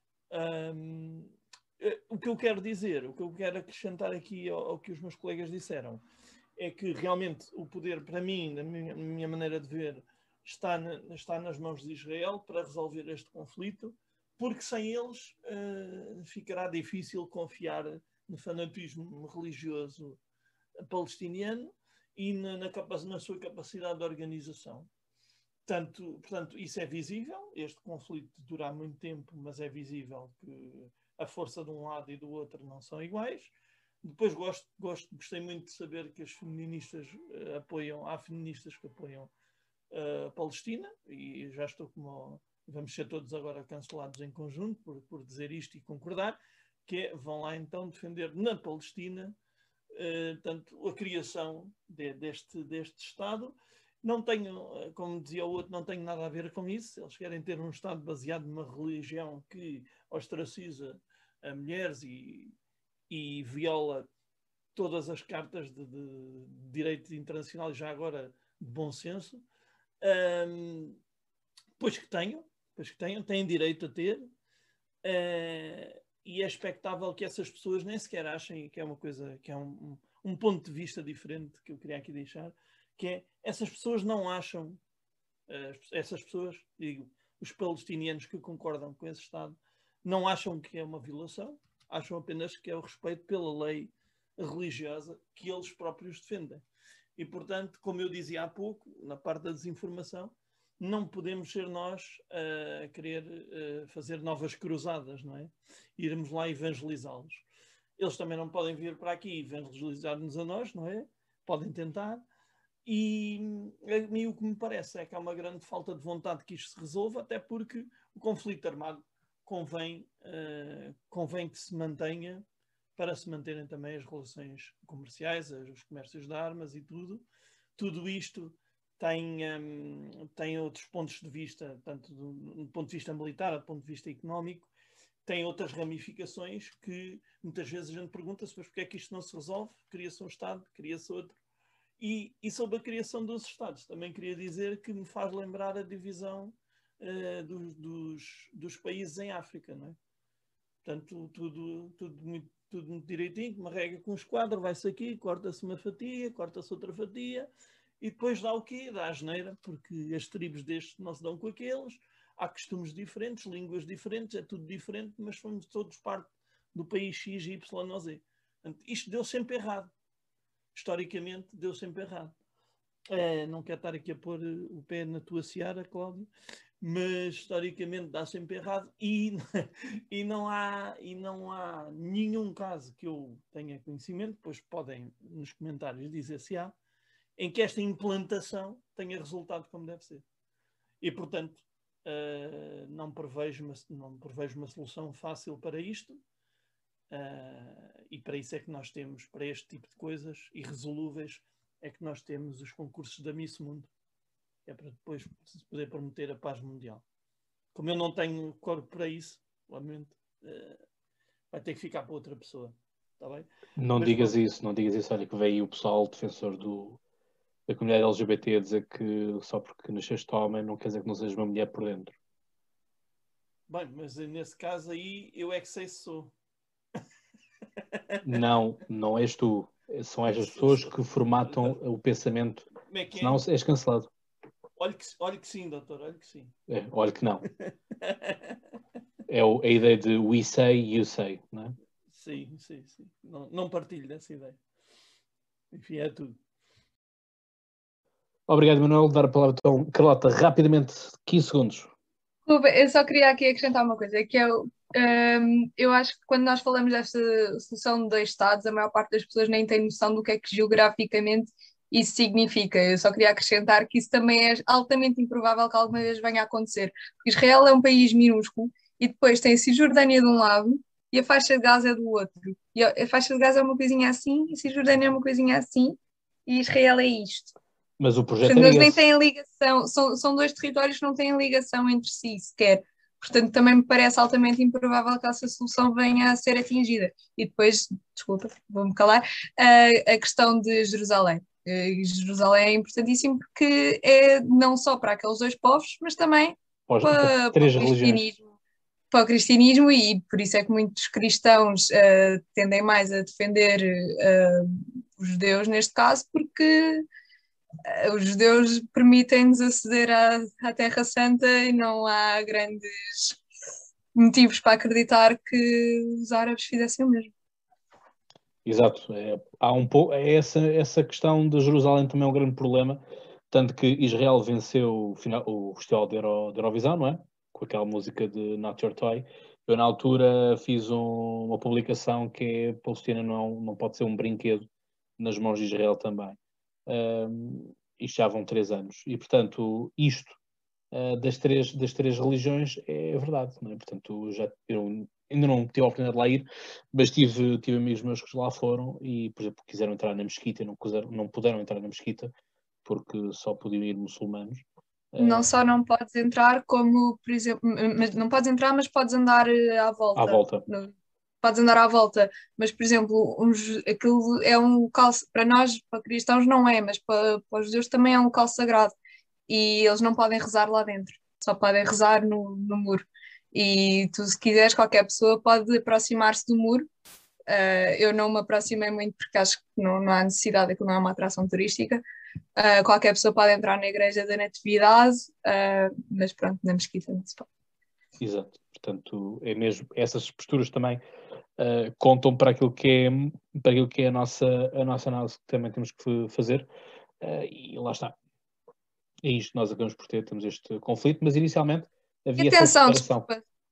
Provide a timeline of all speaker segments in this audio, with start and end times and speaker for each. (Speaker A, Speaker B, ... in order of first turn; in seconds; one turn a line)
Speaker A: 0.3-6.0
Speaker A: 6.6-20.2
Speaker A: 20.9-24.9
Speaker A: 25.6-39.3
Speaker A: 39.9-49.3
Speaker A: 49.9-62.5
Speaker A: 63.1-64.1
Speaker A: 64.7-69.4
Speaker A: 70.0-71.0
Speaker A: 71.8-74.3
Speaker A: 75.0-84.8
Speaker A: 85.5-96.6
Speaker A: 97.2-107.4
Speaker A: 108.0-112.2
Speaker A: 112.8-122.4
Speaker A: 123.0-127.2
Speaker A: 127.8-134.7
Speaker A: 135.2-141.4
Speaker A: 142.0-150.0
Speaker A: 150.8-157.5
Speaker A: 158.0-169.9
Speaker A: 170.7-172.3
Speaker A: 173.1-176.3
Speaker A: 176.8-186.7
Speaker A: 187.4-190.2
Speaker A: 191.0-196.2
Speaker A: 197.1-203.9
Speaker A: 204.7-207.0
Speaker A: 207.7-210.8
Speaker A: 211.5-214.4
Speaker B: 213.8-217.0
Speaker B: 217.7-222.1
Speaker A: 223.7-226.3
Speaker A: 227.9-228.4
Speaker B: 228.2-234.1
Speaker A: 230.3-231.8
Speaker A: 232.9-233.4
Speaker A: 234.8-236.5
Speaker B: 236.7-237.4
Speaker A: 237.4-238.6
Speaker B: 239.3-241.8
Speaker A: 242.1-244.6
Speaker A: 245.7-246.4
Speaker B: 248.5-251.9
Speaker C: 252.5-277.5
Speaker B: 278.0-279.0
Speaker C: 278.4-298.4
Speaker B: 296.9-298.3
Speaker C: 299.1-307.0
Speaker C: 307.8-313.4
Speaker C: 314.1-317.3
Speaker B: 318.6-334.6
Speaker B: 335.2-340.4
Speaker B: 340.9-352.3
Speaker B: 352.8-355.5
Speaker C: 355.2-368.9
Speaker B: 360.1-360.7
Speaker C: 369.5-376.9
Speaker C: 377.5-382.0
Speaker C: 382.6-387.5
Speaker B: 388.2-391.0
Speaker B: 391.6-396.7
Speaker B: 397.2-398.1
Speaker B: 399.2-403.3
Speaker C: 402.4-403.4